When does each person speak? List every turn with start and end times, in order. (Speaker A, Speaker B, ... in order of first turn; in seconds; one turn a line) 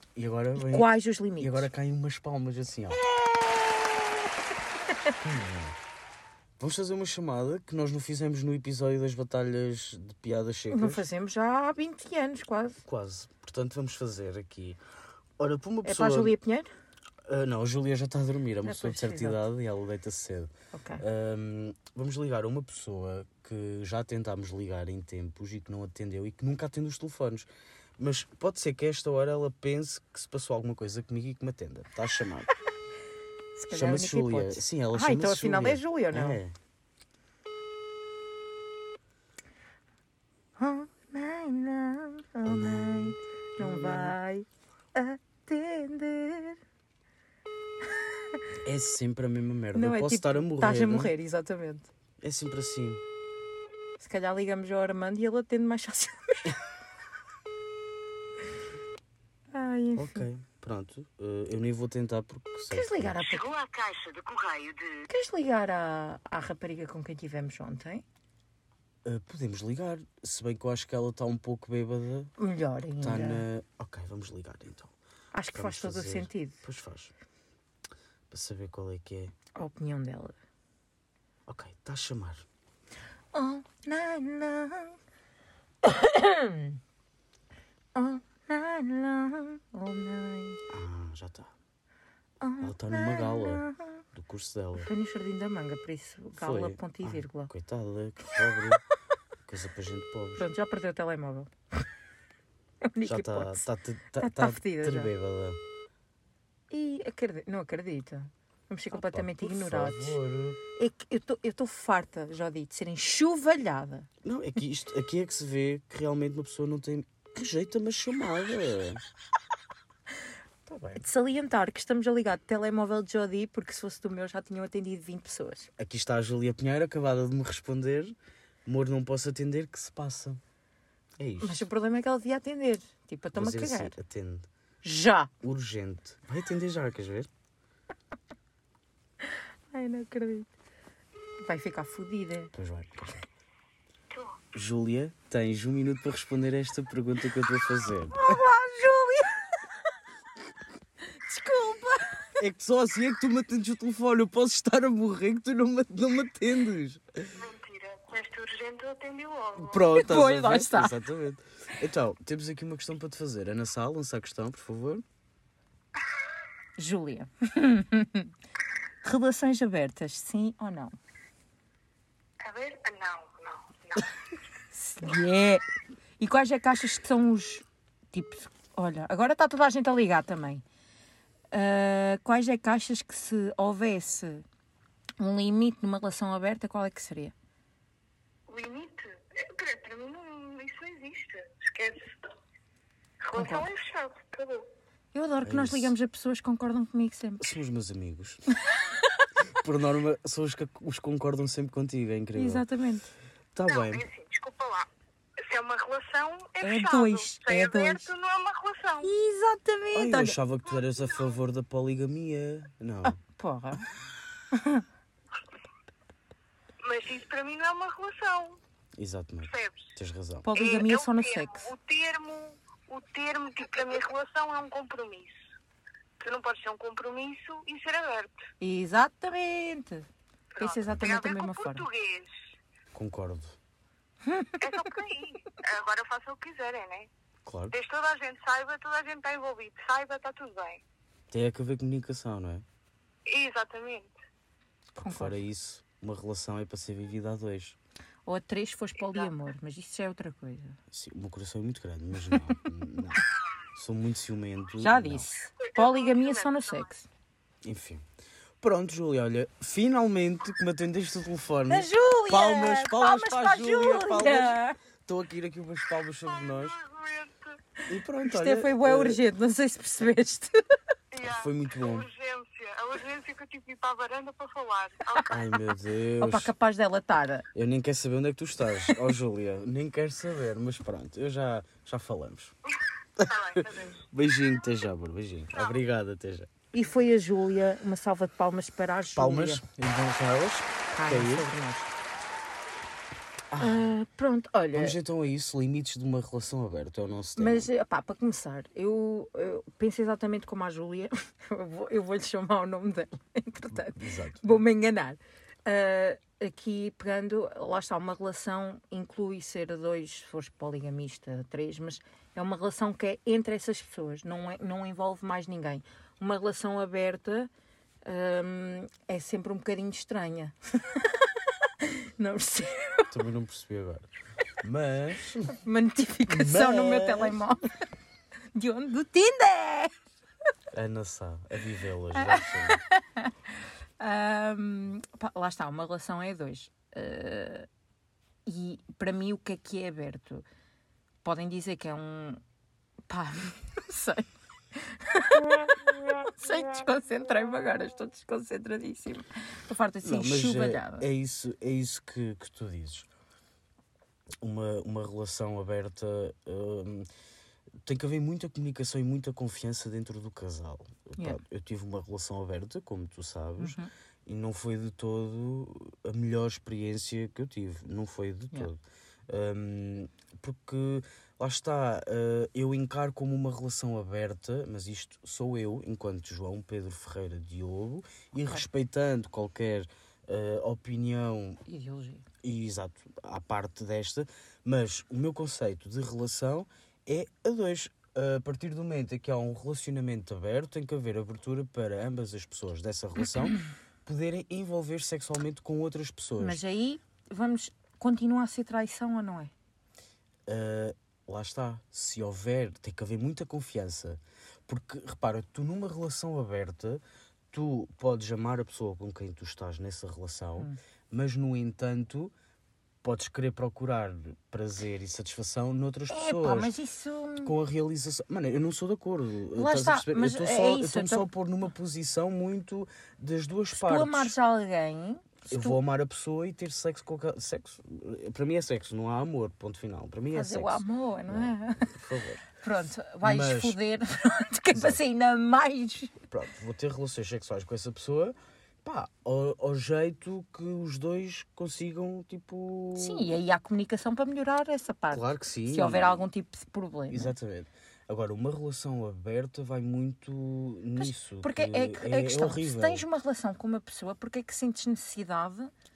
Speaker A: 0.1-3.0
Speaker B: 0.6-1.7
Speaker B: 3.0-4.1
Speaker A: 5.2-5.8
Speaker A: 6.6-11.0
Speaker B: 10.7-12.8
Speaker A: 12.8-14.8
Speaker A: 15.4-16.3
Speaker B: 15.8-16.7
Speaker A: 17.2-32.5
Speaker B: 18.6-19.4
Speaker B: 20.7-21.0
Speaker B: 33.5-36.4
Speaker A: 33.7-36.5
Speaker B: 40.6-46.6
Speaker A: 42.4-44.2
Speaker A: 48.6-51.1
Speaker B: 49.7-51.9
Speaker A: 52.2-53.0
Speaker B: 54.0-56.6
Speaker B: 59.5-60.2
Speaker A: 60.0-63.2
Speaker B: 62.7-63.4
Speaker C: 63.2-65.0
Speaker B: 65.1-68.0
Speaker A: 69.0-72.3
Speaker B: 72.4-73.4
Speaker A: 73.0-74.9
Speaker B: 75.3-76.6
Speaker A: 75.5-77.1
Speaker A: 78.3-79.3
Speaker B: 79.5-80.3
Speaker A: 81.5-82.4
Speaker B: 83.3-85.0
Speaker B: 85.8-86.8
Speaker B: 87.9-90.6
Speaker A: 90.7-91.5
Speaker B: 92.4-94.0
Speaker A: 92.6-94.9
Speaker B: 94.8-97.5
Speaker A: 96.3-98.8
Speaker A: 99.5-100.4
Speaker B: 100.4-101.5
Speaker B: 102.8-103.6
Speaker A: 103.0-105.6
Speaker B: 104.2-105.1
Speaker B: 106.7-110.2
Speaker A: 108.9-110.6
Speaker B: 110.8-114.1
Speaker A: 114.2-119.0
Speaker A: 120.7-121.0
Speaker B: 121.0-125.7
Speaker A: 125.8-130.4
Speaker A: 131.2-131.7
Speaker B: 131.4-133.9
Speaker A: 133.3-134.5
Speaker B: 134.8-135.3
Speaker A: 135.4-137.3
Speaker B: 139.2-140.5
Speaker B: 141.4-142.5
Speaker A: 142.5-143.2
Speaker C: 144.1-144.4
Speaker A: 144.5-148.4
Speaker B: 148.1-149.4
Speaker B: 151.2-152.3
Speaker A: 152.4-157.3
Speaker C: 157.3-159.8
Speaker A: 159.6-165.0
Speaker B: 159.9-161.0
Speaker B: 166.8-168.3
Speaker B: 169.0-170.9
Speaker C: 172.4-174.1
Speaker B: 174.7-175.6
Speaker B: 176.2-180.6
Speaker B: 181.5-184.4
Speaker B: 185.2-187.3
Speaker C: 188.5-192.3
Speaker C: 193.2-194.7
Speaker B: 193.3-193.7
Speaker B: 195.1-197.5
Speaker A: 195.4-195.9
Speaker A: 197.4-198.4
Speaker B: 198.7-199.2
Speaker A: 199.5-202.6
Speaker B: 202.3-203.1
Speaker A: 203.5-204.1
Speaker C: 203.7-209.1
Speaker B: 206.6-208.1
Speaker B: 209.0-210.4
Speaker A: 209.9-213.2
Speaker B: 213.2-213.9
Speaker B: 214.5-214.8
Speaker C: 216.8-218.6
Speaker A: 219.0-220.4
Speaker C: 219.4-219.9
Speaker B: 220.4-221.7
Speaker C: 220.5-225.3
Speaker C: 226.2-228.5
Speaker B: 228.6-230.1
Speaker C: 230.5-232.3
Speaker B: 230.6-231.8
Speaker A: 232.9-233.6
Speaker B: 234.3-234.7
Speaker C: 234.6-237.1
Speaker A: 237.4-237.7
Speaker C: 237.7-240.8
Speaker A: 241.3-242.6
Speaker C: 243.2-244.1
Speaker A: 244.9-247.8
Speaker B: 245.0-245.4
Speaker B: 248.2-250.8
Speaker C: 249.0-249.3
Speaker A: 250.9-255.2
Speaker B: 254.8-257.1
Speaker C: 255.6-256.9
Speaker A: 257.6-258.0
Speaker A: 258.6-266.8
Speaker B: 261.7-264.8
Speaker C: 266.3-267.6
Speaker A: 267.9-269.2
Speaker B: 268.2-270.5
Speaker C: 271.1-275.6
Speaker A: 271.2-272.1
Speaker A: 275.3-276.5
Speaker B: 276.2-277.4
Speaker A: 277.5-282.5
Speaker C: 283.2-284.1
Speaker A: 283.2-286.5
Speaker C: 285.5-285.8
Speaker B: 286.7-289.6
Speaker A: 289.1-291.5
Speaker B: 290.9-291.9
Speaker A: 293.5-293.9
Speaker B: 293.6-295.0
Speaker A: 294.7-297.7
Speaker B: 297.4-317.5
Speaker A: 303.7-304.4
Speaker B: 318.0-323.1
Speaker A: 323.1-324.1
Speaker A: 324.6-325.5
Speaker B: 325.5-327.7
Speaker A: 326.3-327.4
Speaker B: 328.5-329.9
Speaker A: 330.7-332.8
Speaker B: 332.1-333.3
Speaker B: 334.0-337.7
Speaker B: 338.4-340.4
Speaker B: 341.2-342.4
Speaker B: 343.1-351.1
Speaker A: 350.0-353.1
Speaker A: 354.4-357.1
Speaker A: 357.8-381.6
Speaker B: 363.6-363.9
Speaker B: 381.6-382.3
Speaker A: 382.4-396.6
Speaker B: 396.4-399.5
Speaker A: 400.5-412.3
Speaker A: 413.0-416.7
Speaker B: 416.1-417.5
Speaker A: 417.4-424.3
Speaker B: 419.5-421.3
Speaker B: 423.7-425.8
Speaker A: 425.5-432.4
Speaker B: 430.3-431.9
Speaker B: 432.5-436.2
Speaker A: 433.2-433.8
Speaker A: 434.7-435.0
Speaker A: 436.3-443.3
Speaker B: 442.9-447.3
Speaker A: 445.1-446.3
Speaker A: 447.1-453.0
Speaker B: 451.0-455.7